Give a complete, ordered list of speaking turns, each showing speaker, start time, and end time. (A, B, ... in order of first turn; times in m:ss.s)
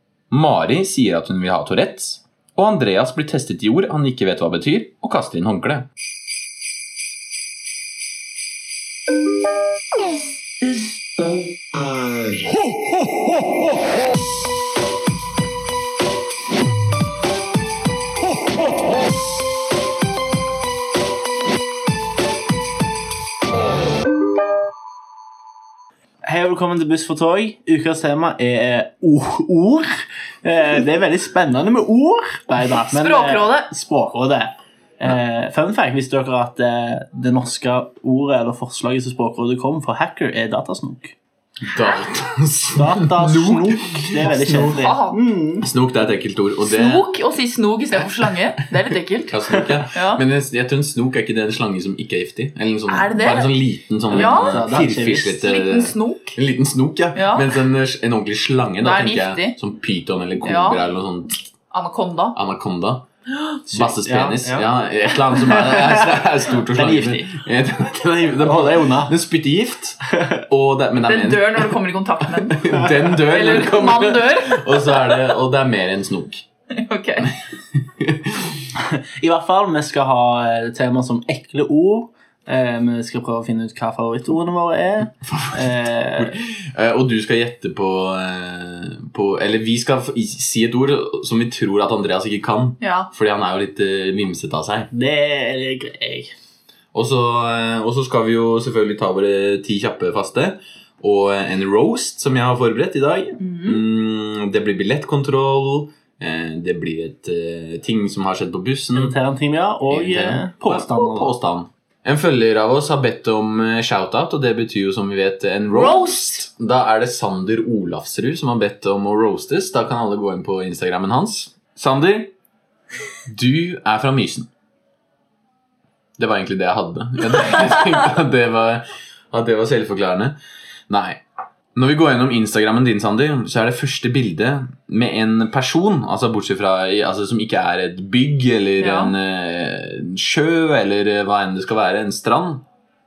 0:00.3-0:05.8 A
0:26.2-0:41.2 B
0:32.9-0:33.7 C
0:41.6-0:44.8 A
0:42.7-0:45.7 B
0:44.6-0:45.2 C
0:45.6-0:47.1 A
0:46.6-0:50.2 C
0:49.3-1:01.4 A
0:52.9-0:54.6 C
0:54.1-0:55.4 B
0:55.2-0:56.4 C
0:57.1-0:57.6 C
0:58.8-0:59.6 C
1:00.4-1:00.8 C
1:01.7-1:02.4 C
1:02.3-1:03.0 A
1:03.7-1:16.4 A
1:03.7-1:04.7 B
1:05.3-1:09.2 B
1:10.1-1:10.4 B
1:11.0-1:15.2 C
1:16.7-1:17.3 C
1:17.3-1:18.6 A
1:18.7-1:26.4 B
1:25.2-1:34.9 A
1:32.8-1:33.1 C
1:34.9-1:36.3 B
1:36.9-1:49.1 A
1:43.4-1:43.8 C
1:48.9-1:51.3 B
1:49.9-2:02.3 A
1:55.7-1:56.4 C
2:03.3-2:04.5 A
2:06.2-2:10.4 A
2:10.9-2:11.2 A
2:11.7-2:22.6 A
2:18.8-2:19.1 C